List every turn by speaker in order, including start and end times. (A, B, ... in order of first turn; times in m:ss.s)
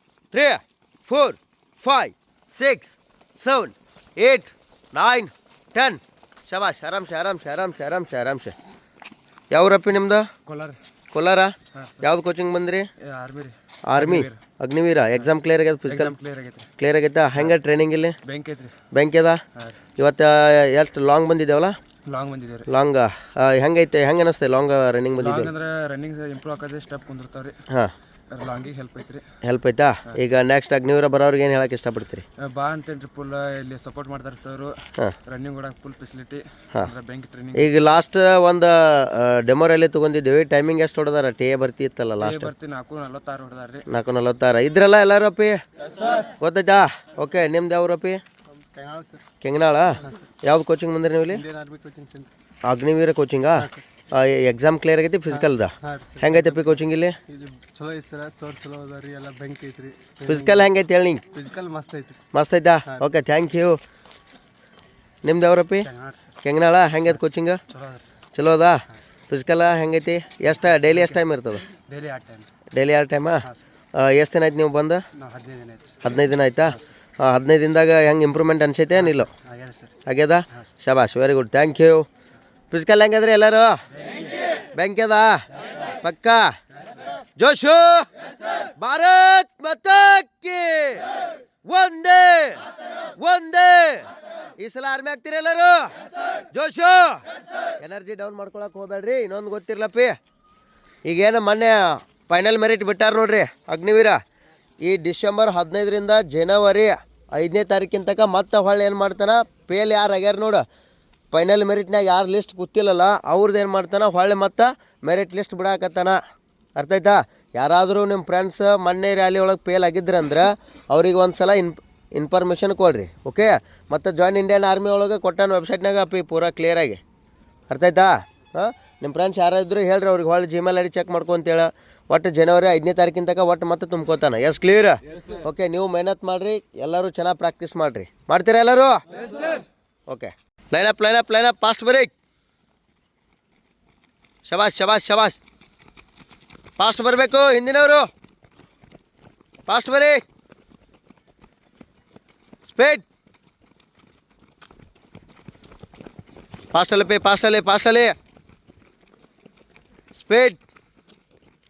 0:00.3-0:08.6 A
0:09.5-0:10.3 A
0:10.5-0:10.8 B
0:11.1-0:12.9 A
0:11.7-0:12.1 B
0:13.0-0:14.4 B
0:13.9-0:16.1 A
0:15.9-0:16.7 B
0:16.8-0:18.2 A
0:18.2-0:18.8 B
0:18.9-0:19.4 A
0:20.0-0:21.8 A
0:22.1-0:22.7 B
0:22.7-0:25.5 A
0:25.2-0:27.6 B
0:28.3-0:29.3 B
0:29.4-0:32.2 A
0:32.4-0:37.8 B
0:37.6-0:42.5 A
0:42.2-0:43.9 B
0:43.9-0:45.6 A
0:46.2-0:48.2 A
0:48.6-0:49.2 C
0:49.4-0:51.4 A
0:51.3-0:52.3 C
0:52.6-0:57.2 A
0:53.6-0:53.8 C
0:55.3-0:56.8 C
0:57.3-1:00.7 C
1:00.3-1:01.2 A
1:01.3-1:02.2 C
1:02.3-1:03.8 A
1:05.2-1:05.9 A
1:05.9-1:06.3 C
1:06.4-1:07.6 A
1:07.7-1:08.1 B
1:08.4-1:11.7 A
1:10.8-1:11.2 B
1:11.7-1:12.5 B
1:12.7-1:15.0 A
1:15.2-1:15.9 B
1:16.0-1:19.3 A
1:19.0-1:19.9 B
1:20.0-1:22.1 A
1:22.7-1:23.8 A
1:24.7-1:25.4 A
1:26.0-1:26.5 A
1:27.4-1:28.1 A
1:28.8-1:31.1 A
1:31.6-1:32.6 A
1:33.2-1:34.1 A
1:34.6-1:35.9 A
1:36.5-1:37.2 A
1:37.8-1:40.2 A
1:41.0-1:44.2 A
1:44.8-1:50.6 A
1:51.3-1:56.2 A
1:56.8-2:07.0 A
2:07.7-2:19.0 A
2:20.1-2:22.1 A
2:24.5-2:25.4 A
2:26.8-2:28.1 A
2:29.7-2:30.2 A
2:32.6-2:33.0 A
2:36.7-2:38.2 A
2:40.1-2:40.6 A